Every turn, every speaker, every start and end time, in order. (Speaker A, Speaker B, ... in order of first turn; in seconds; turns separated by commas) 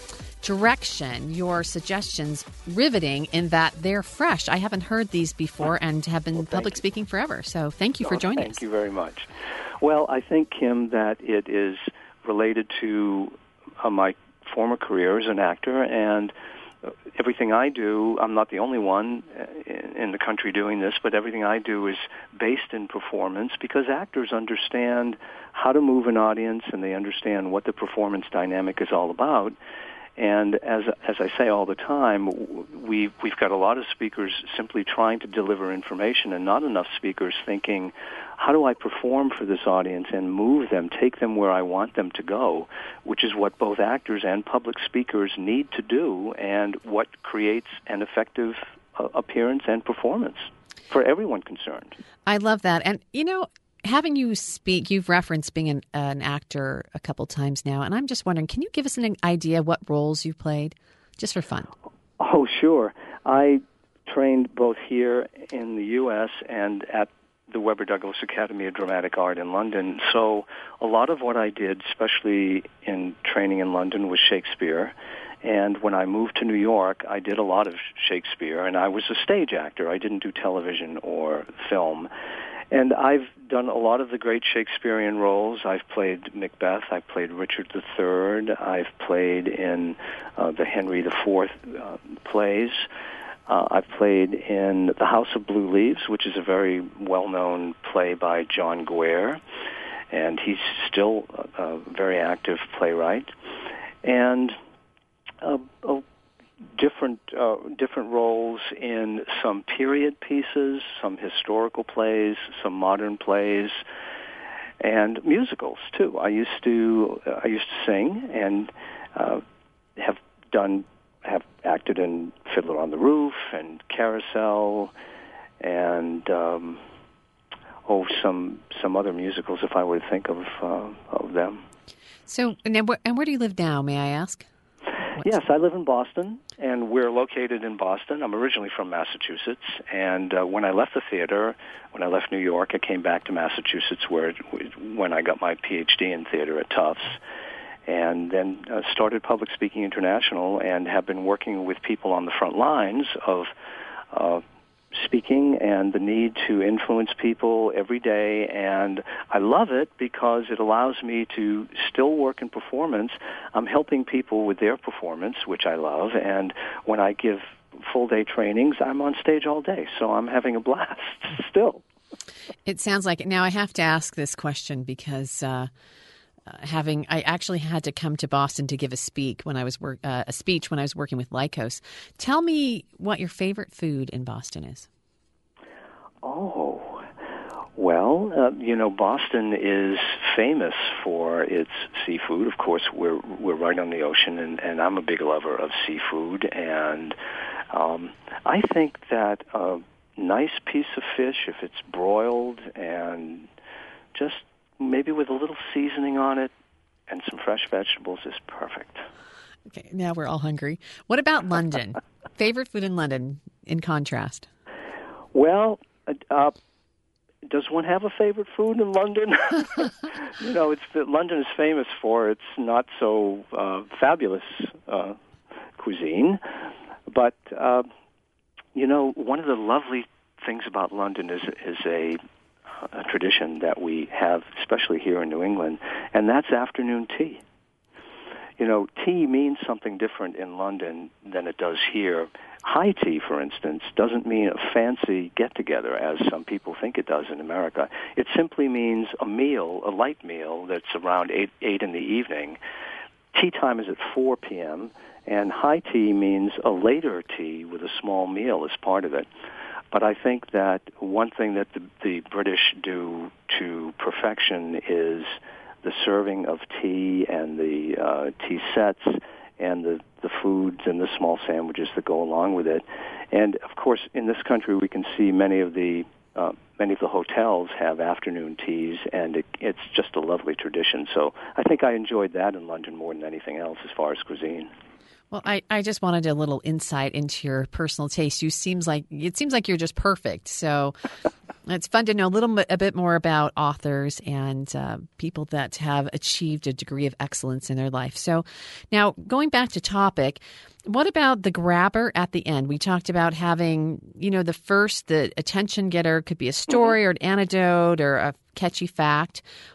Speaker A: 0.4-8.6, Speaker B: 6.4-6.8, Speaker B: 8.0-9.3, Speaker B: 9.8-16.3, Speaker B: 17.1-29.6, Speaker B: 30.2-52.0, Speaker A: 52.3-61.7, Speaker B: 62.2-82.1, Speaker B: 82.7-92.9, Speaker B: 93.5-99.4, Speaker B: 100.1-103.3, Speaker B: 104.0-104.6, Speaker B: 105.4-106.0, Speaker B: 106.8-113.8, Speaker B: 114.8-119.4, Speaker B: 120.0-124.9, Speaker B: 125.6-126.8, Speaker B: 127.9-131.6, Speaker A: 132.3-134.4, Speaker B: 135.2-147.2, Speaker B: 147.9-153.5, Speaker B: 154.1-154.4, Speaker B: 154.9-171.8, Speaker A: 172.7-175.7, Speaker A: 176.5-184.9, Speaker B: 186.2-187.0, Speaker B: 187.8-197.2, Speaker B: 197.7-203.5, Speaker B: 204.1-206.5, Speaker B: 207.1-209.1, Speaker A: 209.7-214.5, Speaker B: 215.3-216.6, Speaker B: 217.4-225.2, Speaker B: 225.8-226.4, Speaker B: 227.1-227.9, Speaker B: 228.7-232.2, Speaker B: 232.9-237.4, Speaker B: 238.6-252.6, Speaker B: 253.3-259.3, Speaker B: 259.9-284.7, Speaker A: 285.3-291.0, Speaker A: 291.7-309.4, Speaker B: 306.7-306.9